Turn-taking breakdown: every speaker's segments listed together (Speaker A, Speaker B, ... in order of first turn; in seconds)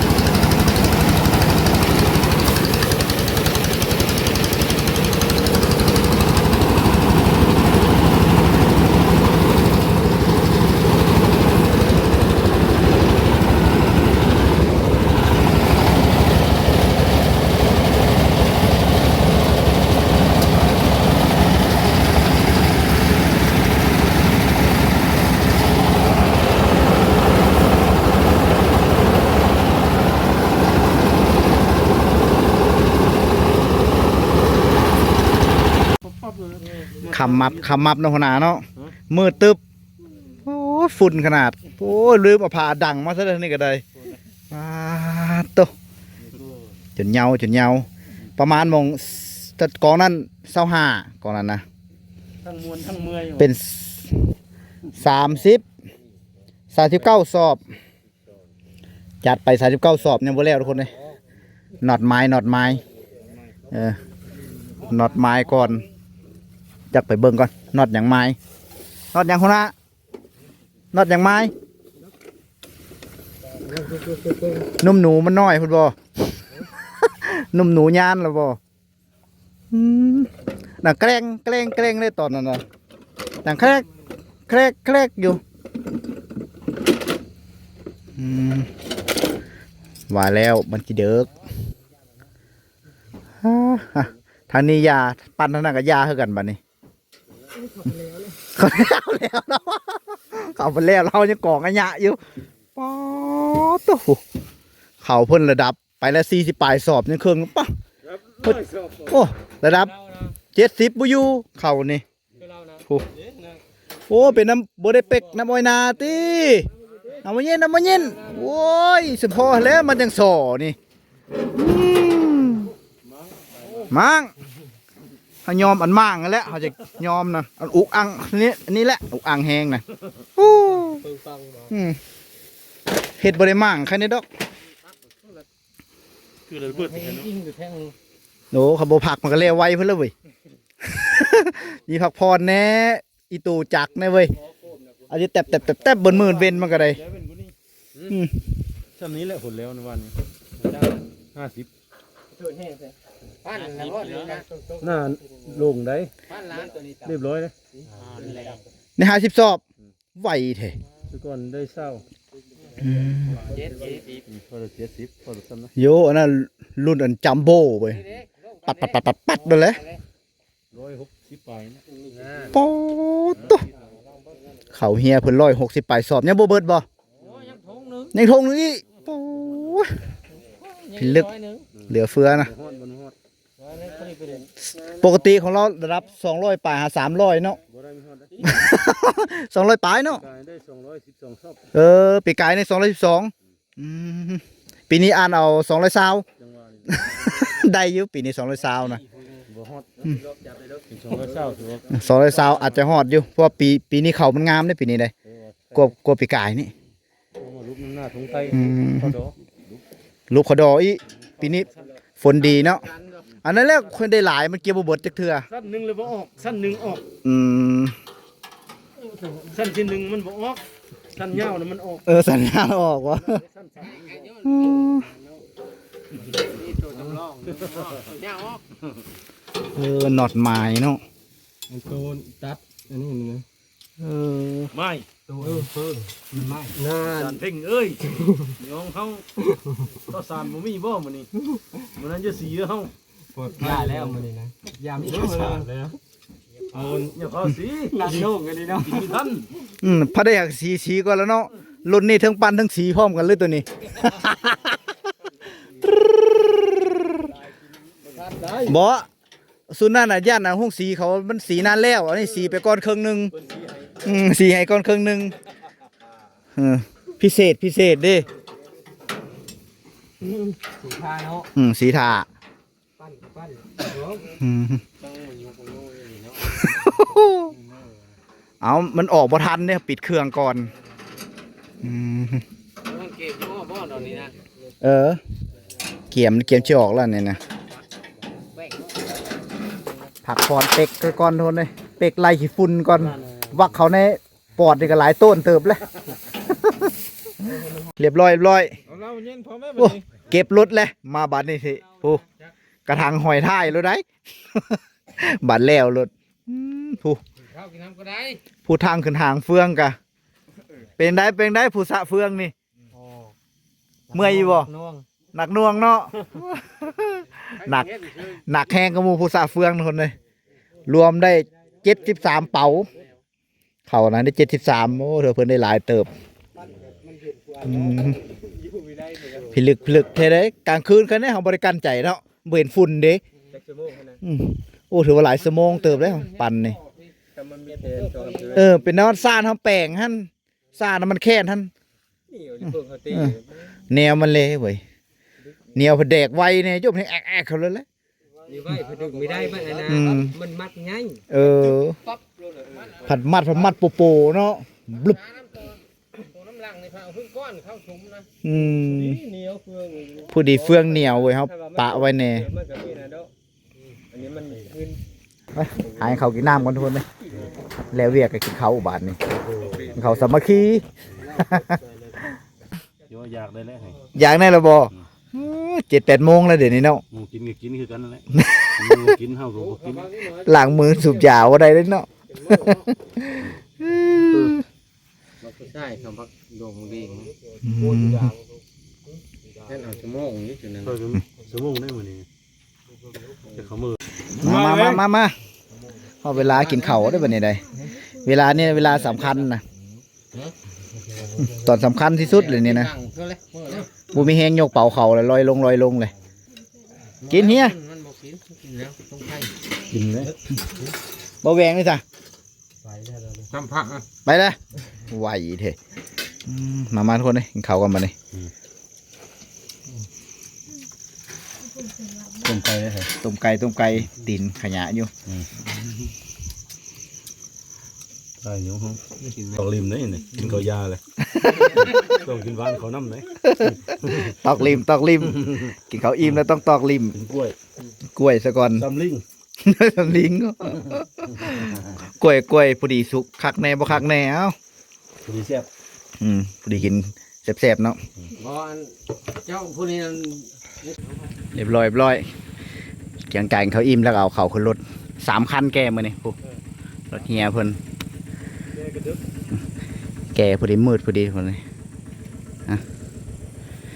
Speaker A: 36.0-37.7, 52.4-53.5, 108.6-109.0, 123.0-123.9, 136.5-137.3, 146.8-147.5, 148.9-150.2, 151.3-151.7, 154.8-156.1, 157.0-157.5, 161.1-162.0, 163.3-165.7, 170.7-171.8, 177.3-177.6, 181.8-183.1, 187.7-188.5, 190.1-191.7, 196.4-197.2, 199.5-199.9, 200.9-202.0, 207.4-209.4, 215.5-217.0, 219.4-222.1, 223.4-224.3, 234.7-235.1, 236.9-241.3, 241.9-242.9, 245.1-245.6, 246.7-249.5, 293.1-293.5, 369.4-370.0, 373.1-374.1, 377.1-380.1, 384.3-384.6, 390.8-392.2, 393.6-395.0, 409.9-410.4, 422.3-423.1, 425.3-425.6, 428.4-431.0, 431.7-434.4, 437.1-437.6, 438.8-439.2, 445.2-445.7, 458.7-459.2
Speaker B: 37.1-39.6, 40.4-43.8, 44.5-45.7, 47.0-51.6, 53.4-54.2, 54.9-55.6, 56.7-57.7, 59.2-60.9, 61.8-62.8, 63.7-64.0, 64.8-65.8, 66.9-68.4, 69.1-69.7, 70.9-71.5, 74.7-75.9, 77.0-78.6, 79.7-82.6, 83.4-83.9, 84.5-85.4, 88.2-88.7, 90.1-91.3, 93.4-96.6, 98.5-102.2, 102.8-104.2, 105.0-107.7, 108.4-110.0, 110.5-112.0, 114.1-116.7, 117.2-120.8, 121.5-122.7, 123.9-124.3, 125.5-129.8, 130.4-131.1, 131.7-132.0, 133.2-134.2, 138.5-140.1, 140.8-144.3, 145.1-147.0, 148.1-148.5, 159.0-159.6, 160.2-160.8, 162.8-163.4, 165.8-168.1, 168.6-169.9, 172.5-173.7, 174.7-176.9, 178.1-180.0, 180.9-181.3, 181.9-182.5, 185.0-187.6, 188.4-190.2, 191.7-196.2, 197.0-199.0, 201.9-205.1, 205.7-206.7, 208.5-209.2, 210.3-211.7, 212.2-212.9, 213.4-215.5, 217.2-218.0, 222.1-223.4, 224.4-225.1, 229.7-231.0, 234.0-234.7, 249.8-254.8, 255.8-257.3, 258.6-259.1, 259.7-263.3, 264.0-265.4, 266.6-268.3, 271.5-272.3, 274.3-274.8, 276.5-277.6, 278.6-280.7, 281.8-282.4, 284.8-285.2, 286.1-287.4, 290.2-295.9, 297.9-298.8, 299.7-302.2, 302.9-307.2, 308.7-310.0, 311.0-312.5, 314.1-314.7, 315.3-320.1, 320.9-322.9, 323.9-326.1, 327.6-328.2, 329.4-333.2, 334.2-336.8, 338.5-341.7, 343.1-343.4, 343.9-344.8, 345.8-347.9, 349.9-350.4, 351.3-352.0, 353.0-355.2, 358.4-359.2, 360.3-362.5, 365.5-367.1, 367.9-369.2, 369.9-371.8, 374.1-377.0, 378.3-378.9, 380.2-384.6, 387.6-388.3, 394.4-395.4, 396.2-397.6, 398.2-399.6, 401.5-402.9, 404.1-406.1, 407.3-407.8, 411.4-412.0, 414.2-415.8, 416.4-418.1, 423.1-425.1, 431.2-431.9, 433.5-437.1, 438.1-438.9, 439.6-444.5, 446.2-448.0, 451.5-452.3, 453.3-456.4, 457.1-457.8, 460.3-461.6
Speaker C: 73.7-74.7, 97.8-98.3, 112.4-112.8, 131.0-131.7, 137.6-137.8, 152.4-152.9, 153.5-154.4, 183.8-184.4, 200.1-200.8, 226.7-227.2, 231.7-233.4, 235.3-237.3, 243.3-246.0, 247.9-249.1, 270.7-271.5, 273.0-274.0, 328.4-329.5, 333.5-334.2, 337.4-338.6, 342.3-343.4, 348.5-351.2, 358.9-363.3, 364.1-365.0, 365.8-366.1, 386.8-387.3, 389.8-390.4
Speaker D: 136.9-137.6, 153.5-154.4, 156.5-156.9, 163.7-164.0, 177.6-178.1, 180.7-181.6, 223.9-224.4, 226.8-228.6, 275.2-276.0, 282.9-284.4, 299.1-299.6, 307.5-308.4, 349.0-349.7, 355.2-355.8, 356.2-358.3, 385.5-387.3, 389.7-390.9, 402.7-403.9, 407.4-409.5, 413.5-414.0, 448.4-448.9, 449.5-450.4